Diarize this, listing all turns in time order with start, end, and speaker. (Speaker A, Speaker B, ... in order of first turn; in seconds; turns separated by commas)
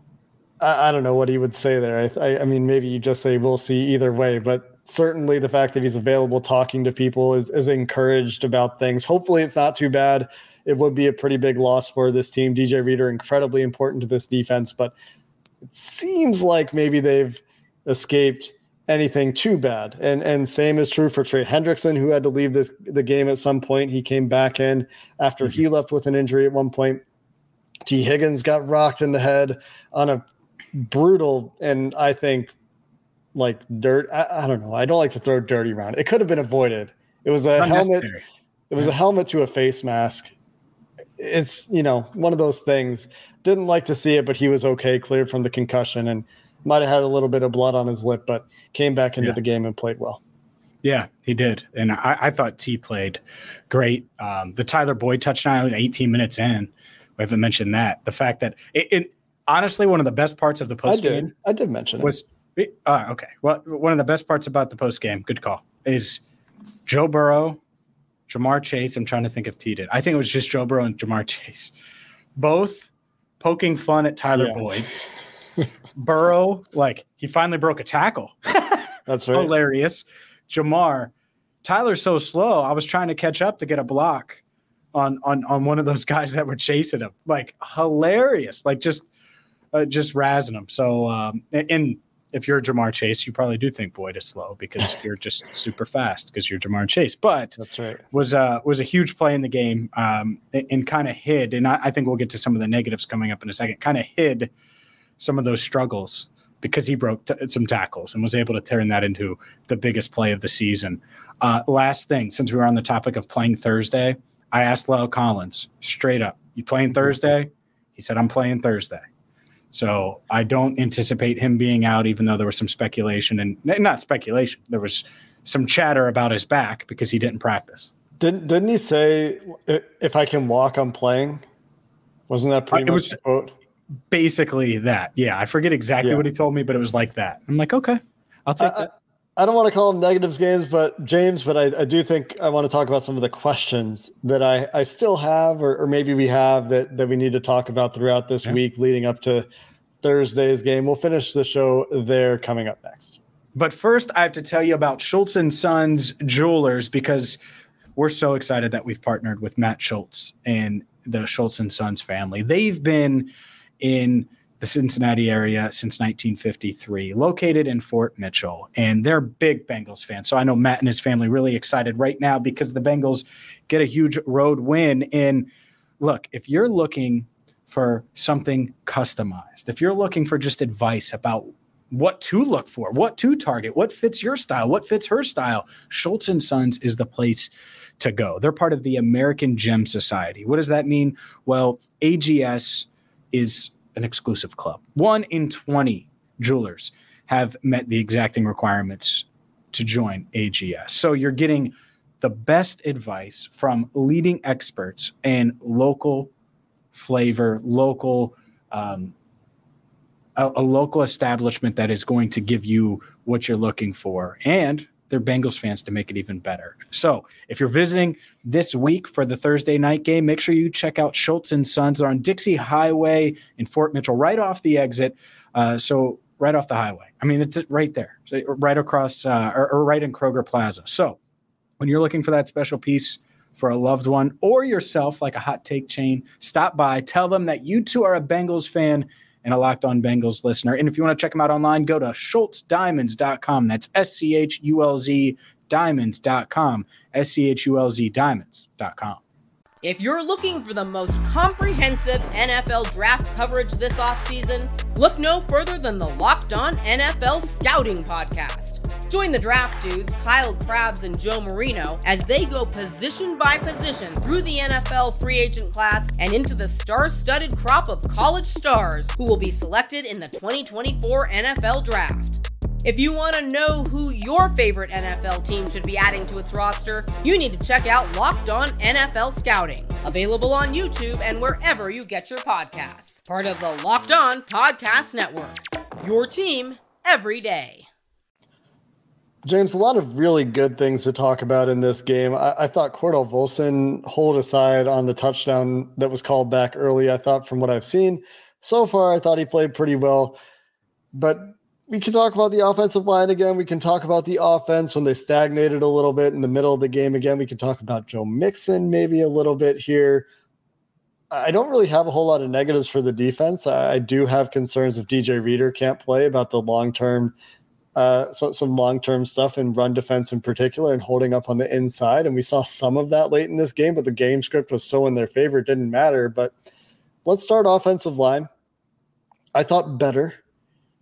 Speaker A: 0.6-14.9, Speaker A: 15.6-27.0, Speaker A: 27.9-32.5, Speaker A: 33.3-38.1, Speaker B: 37.5-38.2, Speaker A: 38.7-40.3, Speaker A: 41.2-50.2, Speaker B: 50.8-61.3, Speaker A: 60.9-62.1, Speaker B: 62.0-66.2, Speaker B: 66.8-67.6, Speaker B: 68.3-71.7, Speaker B: 72.3-74.9, Speaker A: 74.4-74.6, Speaker B: 75.9-81.1, Speaker A: 79.1-79.5, Speaker B: 81.6-84.4, Speaker B: 84.9-89.1, Speaker B: 89.7-97.6, Speaker A: 97.6-98.0, Speaker B: 98.1-104.5, Speaker B: 105.2-119.0, Speaker B: 119.7-127.9, Speaker A: 128.2-131.4, Speaker A: 132.3-133.5, Speaker B: 132.7-133.2, Speaker B: 134.1-138.9, Speaker A: 136.0-136.3, Speaker A: 138.6-149.5, Speaker A: 150.0-153.2, Speaker B: 153.6-157.4, Speaker B: 157.9-175.5, Speaker B: 176.0-206.3, Speaker B: 206.9-209.1, Speaker B: 210.4-231.2, Speaker B: 231.8-249.2, Speaker C: 249.8-287.9, Speaker A: 289.4-300.4, Speaker A: 301.1-310.3, Speaker A: 311.3-317.3, Speaker A: 317.9-326.5, Speaker A: 327.2-328.5, Speaker A: 329.5-330.4